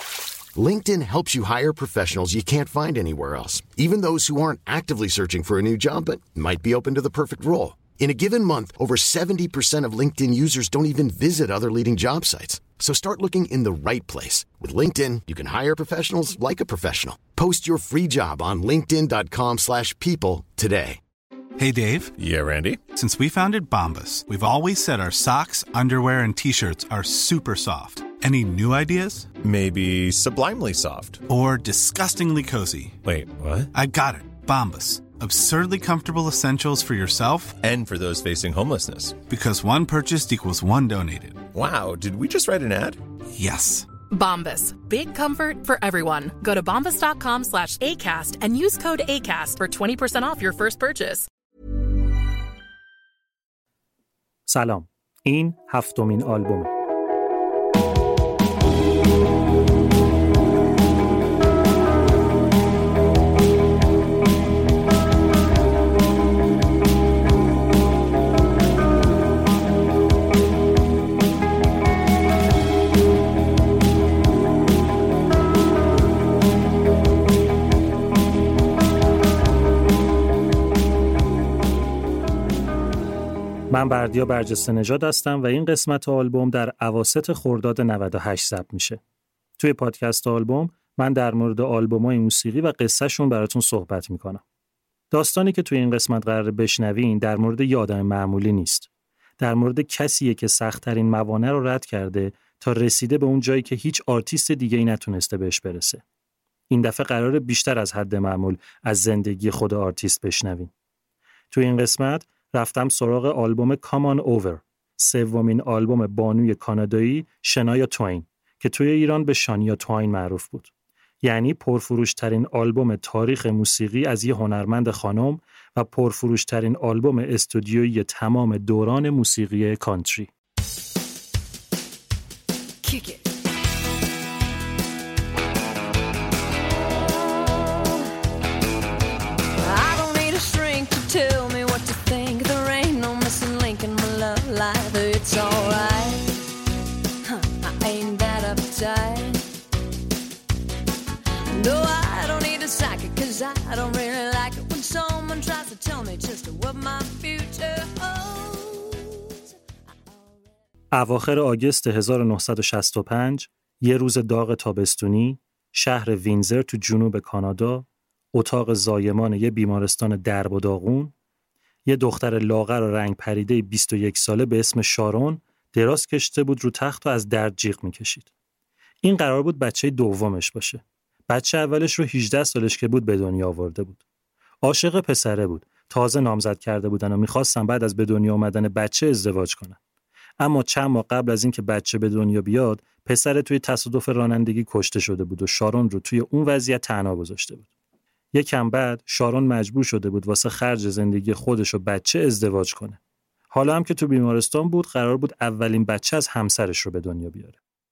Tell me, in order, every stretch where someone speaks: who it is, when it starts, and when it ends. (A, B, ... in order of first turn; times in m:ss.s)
0:00.6-0:21.0 A
0:21.6-0:22.1 B
0:22.2-0:22.8 C
0:22.9-0:29.3 B
0:29.4-0:31.2 C
0:31.3-0:33.0 B
0:33.0-0:33.7 C
0:33.7-0:37.6 B
0:37.6-0:39.2 C
0:39.3-0:41.5 B
0:41.5-0:43.0 C
0:43.4-0:43.9 B
0:44.1-0:51.3 D
0:54.5-0:56.7 E
1:23.7-1:29.0 E
1:29.6-1:34.4 E
1:35.1-1:38.9 E
1:39.4-1:46.0 E
1:46.7-1:50.7 E
1:51.5-2:00.7 E
2:01.2-2:10.3 E
2:12.8-2:13.2 F
2:17.3-2:18.1 F
2:19.6-2:26.3 F
2:27.2-2:29.5 F
2:31.5-2:39.4 F
2:40.9-2:51.1 E
2:51.9-2:58.3 E
2:59.0-3:04.0 E
3:04.6-3:09.8 E
3:10.4-3:17.7 E
3:18.3-3:23.0 E
3:23.5-3:27.6 E